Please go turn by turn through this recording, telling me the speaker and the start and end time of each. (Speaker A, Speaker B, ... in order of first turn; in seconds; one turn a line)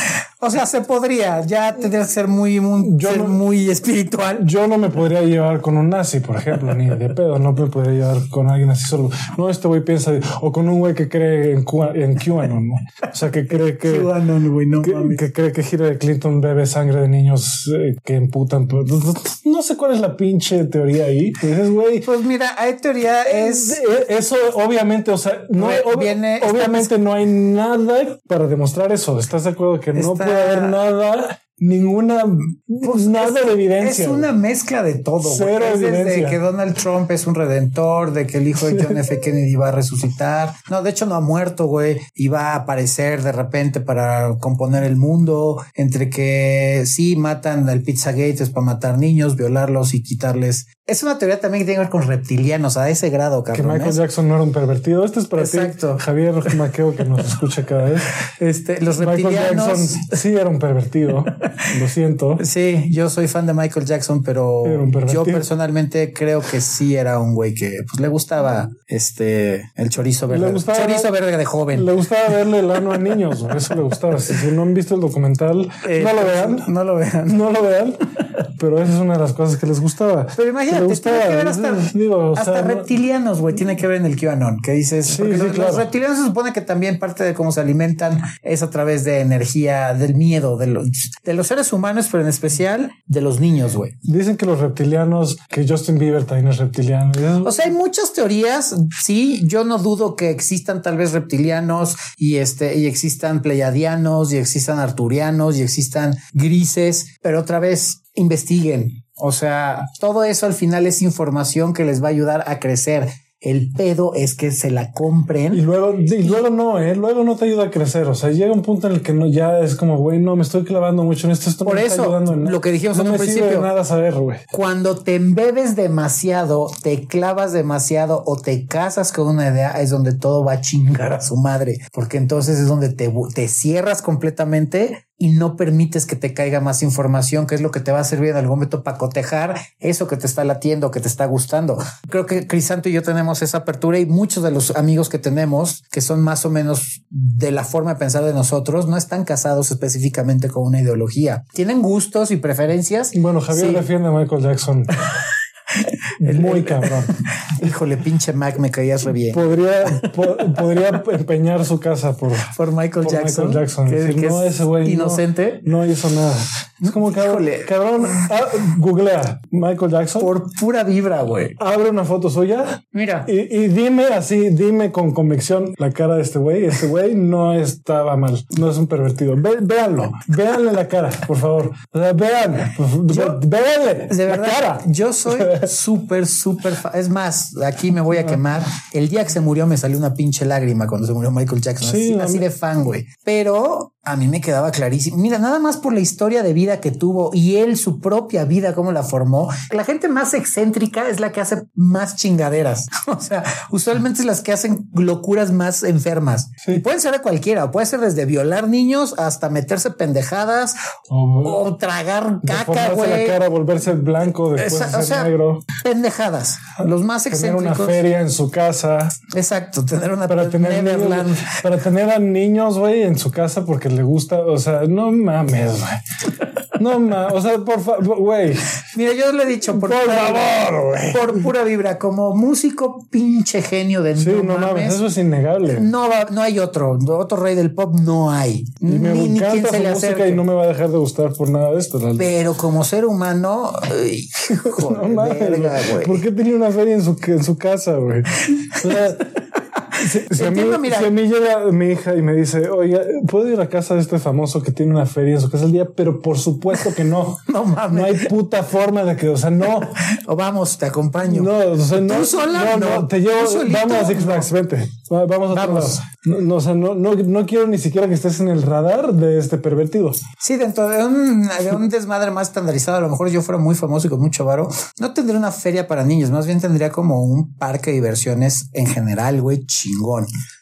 Speaker A: 0.4-4.5
Speaker B: 2.8-3.4
Speaker B: 4.4-14.1
Speaker A: 13.7-15.2
Speaker B: 14.8-22.1
Speaker A: 22.0-23.8
Speaker B: 23.3-34.3
Speaker A: 25.6-26.9
Speaker A: 29.9-30.8
Speaker A: 32.8-54.0
Speaker B: 35.2-36.4
Speaker B: 38.6-39.0
Speaker B: 53.5-58.1
Speaker A: 55.4-56.0
Speaker A: 58.2-60.1
Speaker B: 59.0-62.4
Speaker A: 61.4-61.7
Speaker A: 62.4-71.9
Speaker B: 64.6-65.5
Speaker B: 70.3-71.2
Speaker B: 71.7-76.7
Speaker A: 75.8-77.4
Speaker B: 77.3-82.9
Speaker A: 80.4-94.0
Speaker B: 85.0-85.9
Speaker B: 94.0-97.8
Speaker A: 97.4-115.6
Speaker B: 115.5-124.4
Speaker A: 121.7-123.7
Speaker A: 124.5-153.9
Speaker B: 153.1-154.9
Speaker A: 155.8-160.1
Speaker B: 156.2-157.1
Speaker B: 159.3-170.3
Speaker A: 162.5-165.6
Speaker A: 166.8-168.3
Speaker A: 170.2-171.6
Speaker B: 171.6-185.7
Speaker A: 172.9-173.3
Speaker A: 183.1-183.4
Speaker A: 184.1-210.8
Speaker B: 191.8-192.5
Speaker B: 211.1-211.6
Speaker A: 211.4-213.4
Speaker B: 212.4-215.7
Speaker A: 214.6-218.0
Speaker B: 216.8-219.2
Speaker A: 219.3-221.6
Speaker B: 220.3-226.0
Speaker B: 226.8-228.7
Speaker A: 228.9-235.0
Speaker B: 229.7-231.5
Speaker B: 234.2-235.9
Speaker A: 235.7-240.4
Speaker B: 238.9-242.3
Speaker A: 242.2-246.2
Speaker B: 244.6-249.3
Speaker A: 248.8-249.0
Speaker A: 249.9-251.1
Speaker B: 250.0-260.0
Speaker A: 257.4-258.3
Speaker A: 259.8-264.5
Speaker B: 261.2-270.2
Speaker A: 265.5-266.0
Speaker A: 270.4-280.3